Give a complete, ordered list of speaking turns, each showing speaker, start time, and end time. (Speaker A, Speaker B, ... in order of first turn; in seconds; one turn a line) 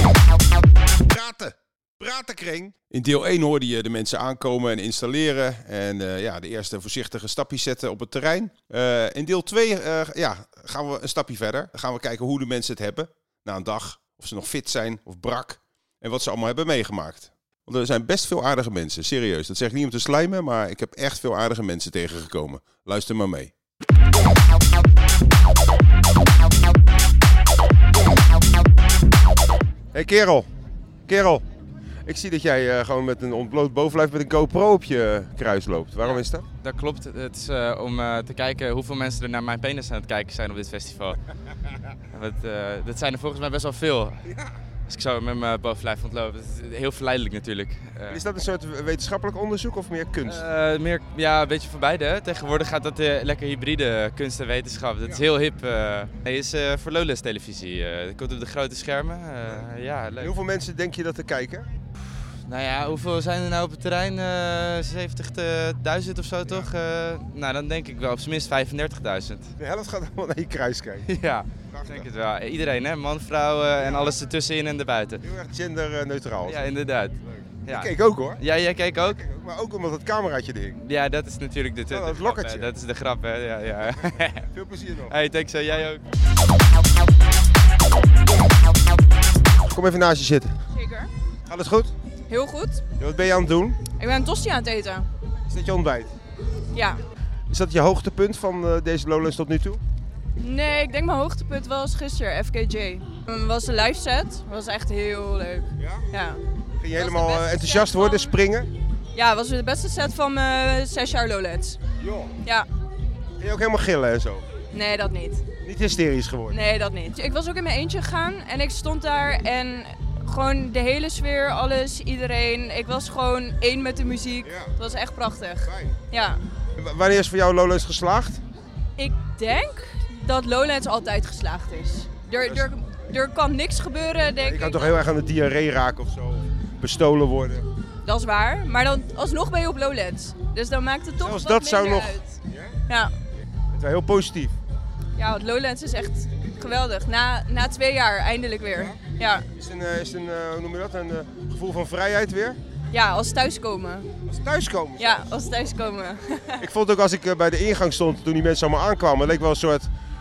Speaker A: 1.0-23.5
Speaker A: 29.9-30.5
Speaker A: 31.1-31.4
Speaker A: 32.0-36.5
Speaker B: 36.0-41.2
Speaker B: 42.1-44.2
Speaker B: 44.9-48.2
Speaker A: 48.1-50.4
Speaker B: 50.2-60.3
Speaker A: 60.2-61.7
Speaker B: 62.4-69.5
Speaker A: 69.6-71.0
Speaker B: 71.1-75.2
Speaker A: 71.7-72.1
Speaker A: 73.8-74.1
Speaker A: 75.2-76.7
Speaker B: 76.5-77.1
Speaker B: 77.7-79.2
Speaker A: 77.7-78.4
Speaker A: 79.0-80.8
Speaker B: 80.8-84.4
Speaker A: 81.9-82.7
Speaker A: 84.5-85.1
Speaker B: 85.1-86.0
Speaker A: 89.6-90.5
Speaker C: 90.8-91.1
Speaker A: 91.5-91.9
Speaker C: 92.3-92.8
Speaker A: 93.0-93.8
Speaker C: 94.0-95.1
Speaker A: 95.5-96.1
Speaker C: 96.7-97.0
Speaker A: 97.5-99.8
Speaker C: 100.4-106.4
Speaker A: 105.8-106.0
Speaker A: 106.8-108.7
Speaker C: 106.9-108.3
Speaker C: 109.1-111.8
Speaker A: 112.0-112.3
Speaker A: 113.4-114.4
Speaker C: 114.7-115.4
Speaker A: 115.6-116.6
Speaker C: 116.5-126.4
Speaker A: 124.4-124.7
Speaker A: 125.7-126.0
Speaker A: 126.8-128.4
Speaker C: 129.0-134.9
Speaker A: 132.3-132.7
Speaker A: 134.4-137.6
Speaker C: 138.0-142.2
Speaker A: 141.2-142.8
Speaker A: 143.7-144.6
Speaker C: 145.2-149.4
Speaker A: 149.5-152.6
Speaker C: 152.9-154.1
Speaker A: 154.3-155.7
Speaker C: 155.0-156.6
Speaker A: 156.6-159.9